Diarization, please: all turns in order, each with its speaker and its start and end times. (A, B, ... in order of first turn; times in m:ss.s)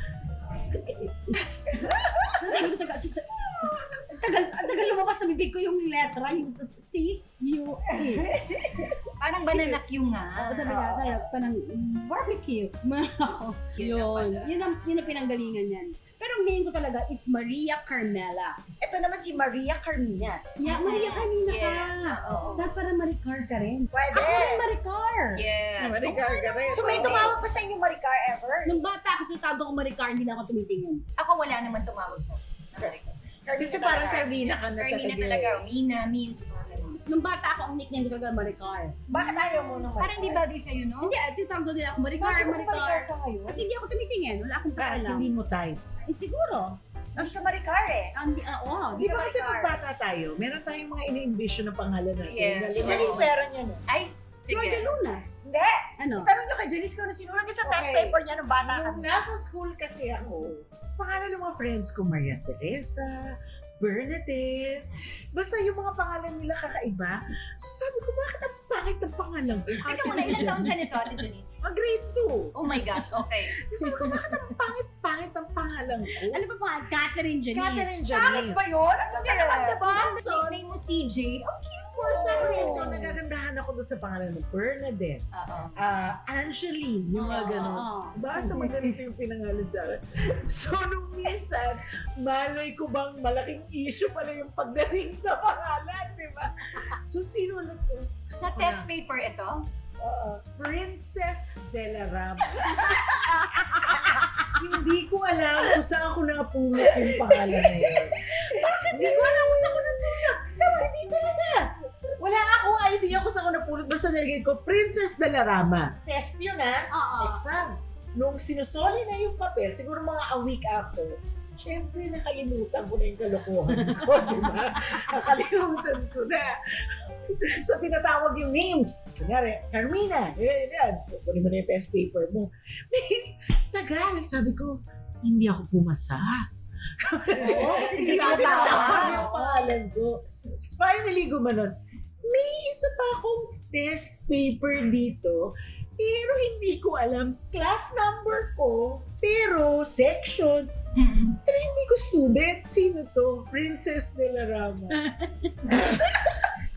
0:00.6-0:01.4 A
0:01.8-0:02.5 B
0:02.3-0:08.3 A
0:08.0-0:09.0 B
0:09.2-0:10.7 C
0:09.5-0:09.8 A
0:10.4-0:18.6 A
0:10.6-0:11.2 B
0:13.8-0:14.9 C
0:18.8-0:21.2 B
0:20.6-0:25.4 A
0:20.7-0:22.7 C
0:23.9-0:24.7 B
0:25.4-0:27.4 C
0:25.8-0:27.4 D
0:26.7-0:28.8 B
0:28.6-0:31.0 A
0:31.2-0:33.1 C
0:32.8-0:34.4 B
0:33.6-0:35.6 D
0:34.3-0:37.0 C
0:37.1-0:39.0 A
0:39.1-0:40.4 B
0:39.1-0:41.1 C
0:41.0-0:45.3 A
0:42.2-0:43.6 B
0:44.8-0:45.8 D
0:46.0-0:47.4 A
0:47.2-0:48.1 B
0:48.1-0:49.1 A
0:48.9-0:49.8 B
0:49.0-0:53.3 D
0:52.3-0:53.3 C
0:52.7-0:53.8 B
0:53.9-0:55.0 C
0:54.5-0:55.2 A
0:55.4-0:59.2 B
0:56.0-0:56.3 A
0:57.6-1:16.4 D
1:09.8-1:11.6 C
1:12.5-1:13.6 C
1:13.8-1:14.4 A
1:16.3-1:17.9 A
1:17.5-1:18.7 D
1:18.1-1:19.8 B
1:19.1-1:22.7 C
1:19.5-1:20.6 D
1:22.0-1:25.2 D
1:22.3-1:22.9 B
1:22.4-1:23.0 A
1:25.3-1:25.8 C
1:25.8-1:38.9 D
1:27.1-1:28.7 A
1:38.3-1:39.6 C
1:40.0-1:40.4 B
1:40.4-2:16.5 D
1:43.5-1:44.0 A
1:47.0-1:49.7 B
1:50.6-1:50.9 B
1:56.9-1:57.4 A
2:03.8-2:04.7 A
2:17.0-2:30.7 D
2:17.4-2:19.7 A
2:17.4-2:19.2 B
2:18.0-2:19.3 C
2:30.9-2:31.4 C
2:31.4-2:35.0 D
2:34.9-2:35.5 A